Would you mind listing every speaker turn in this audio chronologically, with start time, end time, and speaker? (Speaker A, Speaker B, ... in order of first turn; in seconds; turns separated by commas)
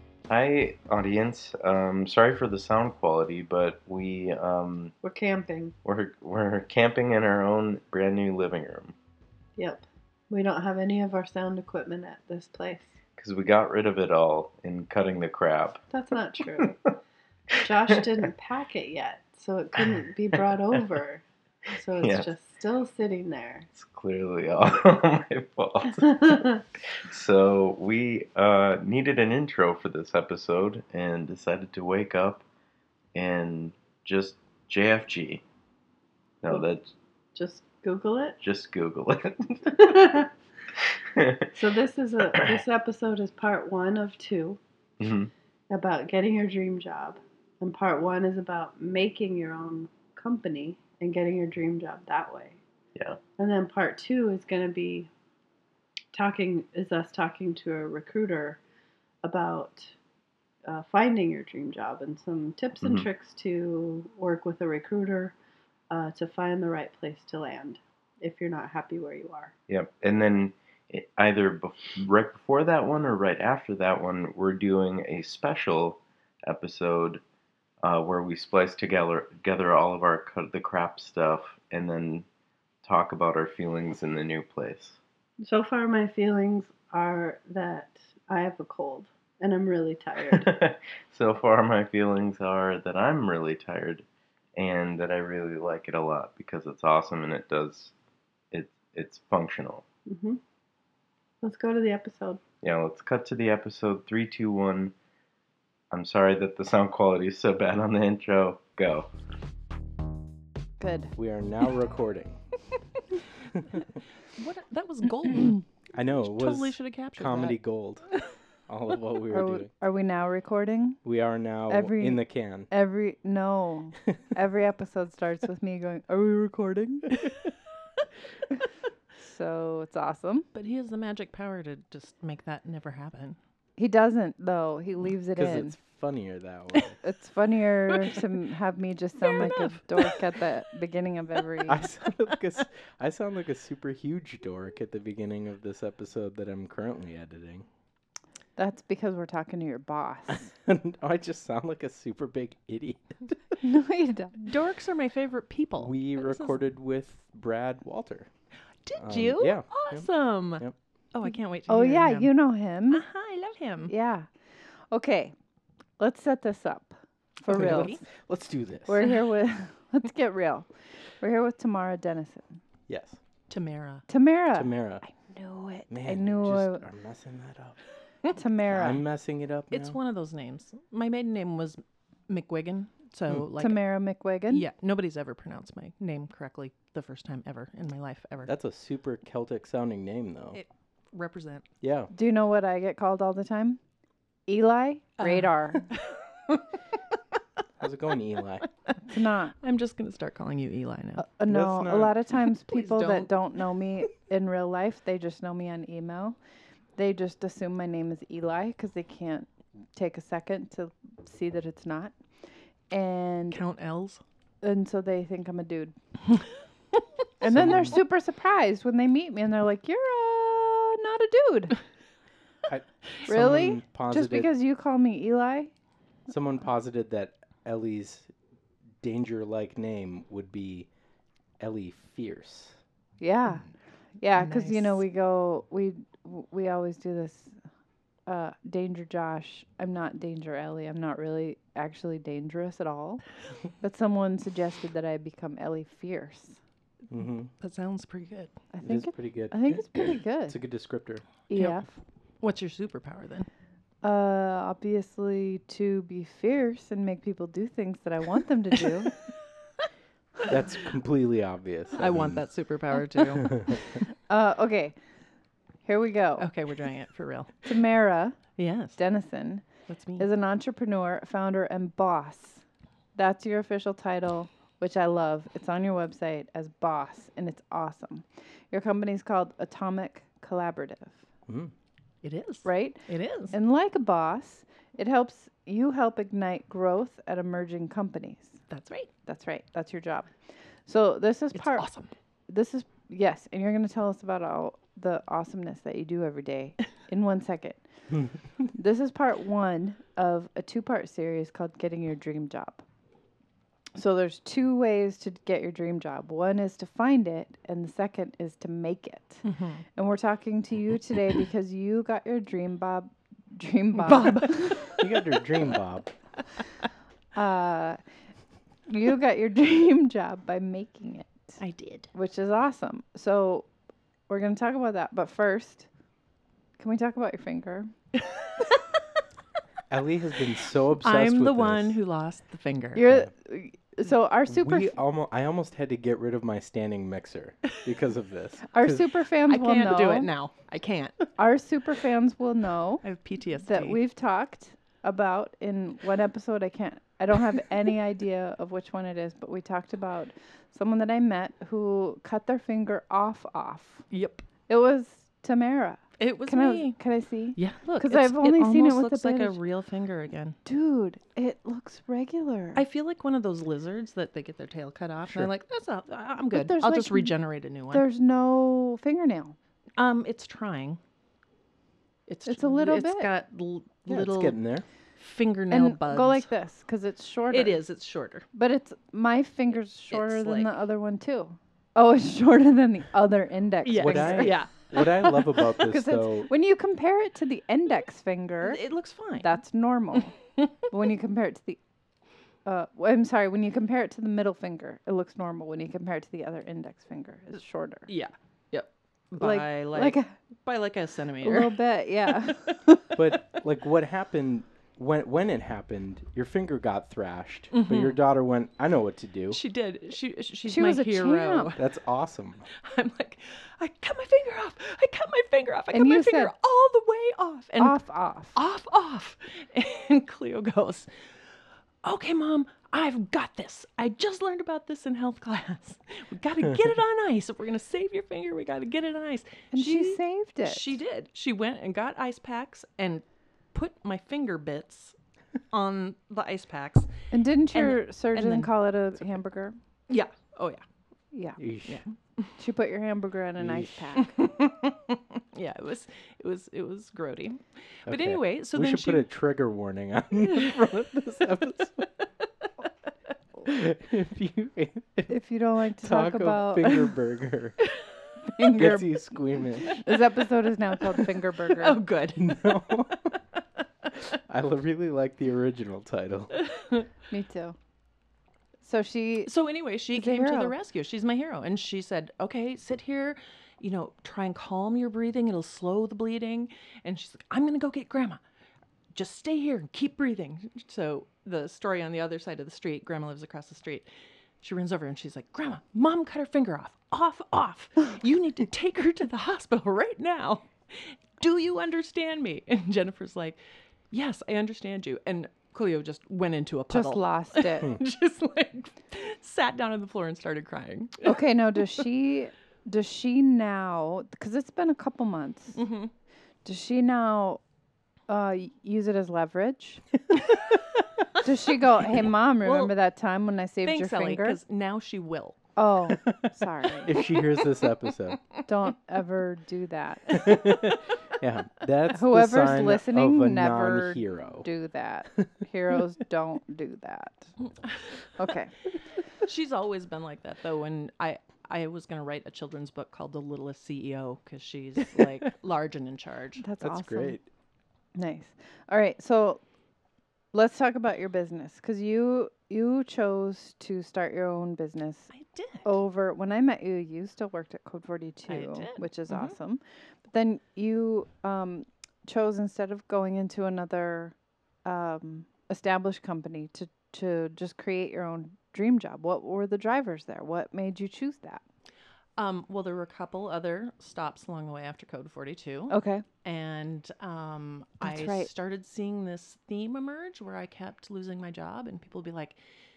Speaker A: 0.3-4.9, Speaker B: 5.0-5.8, Speaker A: 5.8-8.9, Speaker B: 9.6-13.0, Speaker A: 13.2-15.8, Speaker B: 15.9-16.8, Speaker B: 17.6-23.7, Speaker A: 22.0-22.3, Speaker A: 23.8-32.5, Speaker B: 26.0-26.6, Speaker A: 33.1-35.4, Speaker A: 36.4-36.9, Speaker B: 37.4-38.4, Speaker A: 38.4-40.2, Speaker B: 39.7-40.3, Speaker A: 41.1-41.5, Speaker B: 41.5-44.6, Speaker A: 45.0-45.3, Speaker B: 45.7-52.6, Speaker A: 53.0-53.2, Speaker B: 53.4-55.1, Speaker B: 56.1-58.6, Speaker B: 59.2-59.9, Speaker B: 60.6-65.4, Speaker A: 62.8-63.1, Speaker B: 65.9-69.5, Speaker A: 69.7-77.2, Speaker A: 77.8-82.3, Speaker A: 82.8-85.0, Speaker B: 85.4-90.6, Speaker A: 90.3-94.0, Speaker A: 94.6-97.9, Speaker A: 98.5-99.8, Speaker B: 100.1-100.4, Speaker B: 101.4-102.4, Speaker A: 102.6-104.9, Speaker A: 105.9-109.1, Speaker C: 110.8-111.1, Speaker D: 111.2-112.4, Speaker D: 113.5-113.9, Speaker E: 114.4-115.6, Speaker D: 115.9-118.1, Speaker E: 116.2-117.6, Speaker D: 118.7-119.7, Speaker C: 119.3-121.0, Speaker D: 121.0-122.7, Speaker C: 121.7-127.2, Speaker C: 129.2-130.5, Speaker E: 130.5-133.4, Speaker C: 133.8-135.8, Speaker D: 135.3-137.0, Speaker C: 137.0-141.9, Speaker E: 139.3-140.2, Speaker D: 141.7-147.7, Speaker C: 148.6-150.5, Speaker D: 150.3-153.4, Speaker C: 153.6-154.4, Speaker E: 154.4-156.6, Speaker D: 155.8-158.3, Speaker E: 158.8-162.3, Speaker D: 159.0-160.7, Speaker C: 161.7-163.1, Speaker E: 162.9-163.9, Speaker C: 163.9-164.3, Speaker C: 164.9-165.3, Speaker C: 166.0-168.0, Speaker E: 167.5-168.0, Speaker D: 167.5-169.1, Speaker C: 168.9-172.6, Speaker D: 172.9-173.2, Speaker E: 173.5-174.1, Speaker C: 174.1-176.9, Speaker D: 174.5-175.0, Speaker D: 175.9-177.8, Speaker C: 178.3-179.0, Speaker D: 178.7-180.0, Speaker E: 179.7-183.8, Speaker C: 183.6-184.7, Speaker E: 184.5-188.5, Speaker D: 188.5-190.6, Speaker E: 190.5-191.7, Speaker D: 191.8-192.1, Speaker C: 192.1-193.8, Speaker C: 194.5-195.9, Speaker E: 195.2-196.7, Speaker D: 197.8-198.7, Speaker C: 199.1-199.6, Speaker E: 199.6-201.3, Speaker C: 201.2-206.4, Speaker D: 201.5-202.2, Speaker E: 202.7-203.3, Speaker C: 207.0-212.2, Speaker C: 212.9-213.6, Speaker E: 213.5-214.2, Speaker C: 214.6-215.9, Speaker C: 217.4-221.8, Speaker D: 217.4-218.0, Speaker D: 222.7-224.5, Speaker C: 223.3-225.7, Speaker D: 226.3-228.3, Speaker D: 229.0-230.9, Speaker D: 231.6-232.8, Speaker C: 233.2-237.6, Speaker E: 234.4-235.0, Speaker C: 238.3-246.6, Speaker D: 247.1-247.5, Speaker E: 247.6-248.6, Speaker C: 248.7-250.6, Speaker D: 248.8-251.2, Speaker C: 251.5-251.9, Speaker E: 251.6-251.8, Speaker E: 252.4-253.5, Speaker C: 254.0-259.2, Speaker D: 260.5-262.4, Speaker E: 262.0-263.6, Speaker D: 263.4-263.8, Speaker C: 264.1-265.0, Speaker C: 265.8-266.5, Speaker E: 266.4-267.8, Speaker C: 267.6-268.4, Speaker E: 268.6-269.0, Speaker C: 269.0-269.6, Speaker E: 269.9-270.3, Speaker C: 270.2-272.6, Speaker C: 273.1-281.2, Speaker E: 282.2-283.6, Speaker C: 282.6-288.6, Speaker E: 288.7-289.1, Speaker C: 289.2-291.9, Speaker E: 291.5-292.1, Speaker C: 292.5-297.8, Speaker C: 298.7-302.8, Speaker C: 304.0-314.9, Speaker E: 309.4-309.8, Speaker E: 313.9-315.2, Speaker D: 314.9-316.1, Speaker E: 316.6-316.9, Speaker C: 317.3-318.0, Speaker C: 318.9-321.6, Speaker E: 321.6-322.1, Speaker C: 322.1-323.7, Speaker C: 324.3-325.9, Speaker C: 326.8-327.9, Speaker E: 328.2-329.0, Speaker D: 329.9-332.0, Speaker E: 331.0-333.1, Speaker C: 332.9-335.0, Speaker D: 334.5-339.1, Speaker C: 338.7-340.3, Speaker E: 339.5-341.3, Speaker C: 341.4-343.0, Speaker E: 343.0-344.0, Speaker C: 343.7-354.1, Speaker E: 354.1-354.4, Speaker C: 354.7-359.6, Speaker E: 356.2-357.0, Speaker E: 357.6-360.6, Speaker C: 360.6-362.8, Speaker E: 362.8-368.1, Speaker C: 366.5-367.4, Speaker C: 367.9-369.6, Speaker E: 370.0-371.0, Speaker E: 372.3-374.6, Speaker C: 372.5-373.3, Speaker D: 374.1-374.9, Speaker E: 375.2-376.5, Speaker C: 375.7-377.8, Speaker E: 377.5-378.5, Speaker C: 378.5-384.6, Speaker E: 380.1-380.8, Speaker E: 383.8-385.7, Speaker D: 384.0-386.5, Speaker C: 385.7-388.8, Speaker E: 388.6-389.6, Speaker C: 389.4-390.4, Speaker C: 390.9-391.8, Speaker C: 392.6-398.1, Speaker E: 398.1-402.7, Speaker C: 399.4-400.3, Speaker C: 401.4-403.2, Speaker D: 403.1-409.6, Speaker E: 407.7-408.2, Speaker E: 409.5-411.8, Speaker C: 410.7-411.8, Speaker D: 411.8-412.7, Speaker E: 412.7-418.0, Speaker C: 415.9-416.5, Speaker C: 417.8-418.6, Speaker E: 418.5-421.1, Speaker E: 422.0-435.2, Speaker C: 429.7-431.0, Speaker E: 435.7-437.1, Speaker C: 437.3-439.8, Speaker E: 437.7-438.7, Speaker E: 440.1-440.8, Speaker C: 441.3-441.6, Speaker D: 441.6-442.0, Speaker E: 441.9-442.6, Speaker C: 442.6-444.4, Speaker D: 443.6-444.1, Speaker E: 444.2-449.3, Speaker D: 448.1-452.1, Speaker D: 453.7-455.3, Speaker C: 455.3-457.2, Speaker D: 456.0-457.8, Speaker E: 457.9-459.1, Speaker C: 458.6-459.1, Speaker D: 458.7-459.9, Speaker C: 459.8-462.0, Speaker E: 459.9-460.2, Speaker E: 461.0-464.1, Speaker D: 462.4-463.3, Speaker D: 464.5-466.6, Speaker E: 466.5-467.1, Speaker C: 467.3-467.8, Speaker C: 468.8-469.5, Speaker E: 469.5-478.4, Speaker C: 470.1-470.7, Speaker E: 479.1-484.1, Speaker E: 484.6-493.6, Speaker E: 494.1-501.4, Speaker C: 496.9-497.9, Speaker C: 501.2-505.8, Speaker E: 505.8-506.1, Speaker C: 506.6-507.6, Speaker C: 508.3-510.1, Speaker E: 510.4-510.8, Speaker C: 511.4-514.6, Speaker E: 512.6-513.0, Speaker E: 513.8-515.6, Speaker C: 515.8-517.2, Speaker D: 517.0-518.4, Speaker E: 517.1-517.4, Speaker C: 518.7-520.5, Speaker D: 520.3-524.7, Speaker C: 522.1-527.5, Speaker E: 527.6-528.3, Speaker C: 528.4-528.7, Speaker E: 529.4-536.6, Speaker C: 536.6-537.4, Speaker D: 536.8-537.5, Speaker C: 538.2-539.6, Speaker C: 540.5-545.3, Speaker E: 545.3-546.0, Speaker C: 545.8-561.6, Speaker E: 548.5-549.6, Speaker E: 562.4-572.6, Speaker C: 565.9-566.2, Speaker C: 568.0-568.5